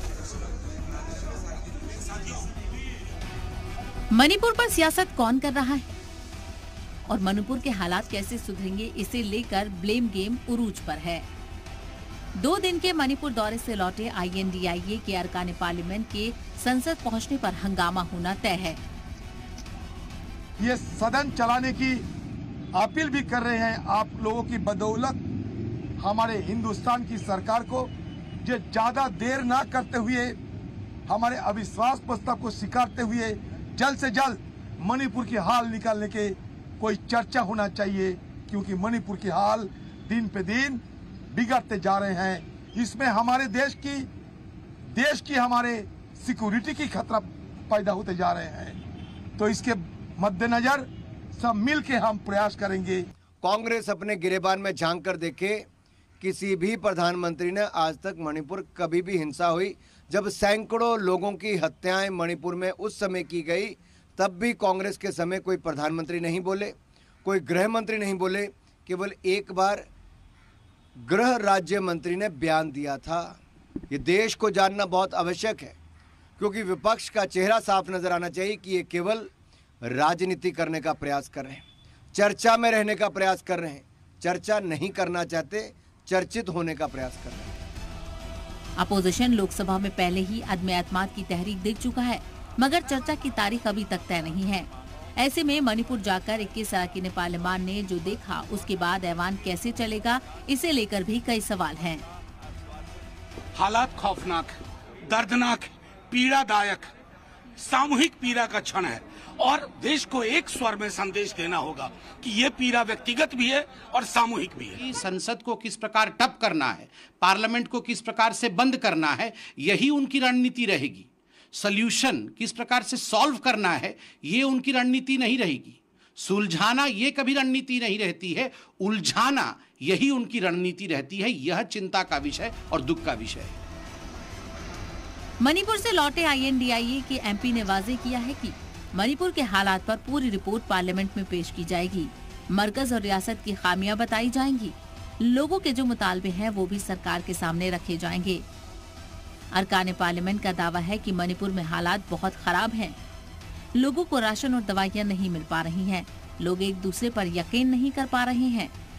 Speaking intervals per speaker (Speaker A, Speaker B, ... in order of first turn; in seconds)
Speaker A: 4.1-5.9, 7.1-11.3, 12.4-18.8, 88.8-102.0, 135.4-148.4, 149.5-153.0, 153.8-158.7
Speaker B: 20.6-22.0, 22.7-25.2, 26.0-27.9, 28.4-30.4, 31.1-44.1, 44.9-48.8, 49.4-53.1
Speaker C: 53.4-55.7, 56.2-69.9, 71.0-73.4, 73.9-75.8, 76.4-79.3, 79.8-87.6
Speaker D: 103.5-106.9, 107.6-114.8
Speaker E: 114.8-133.6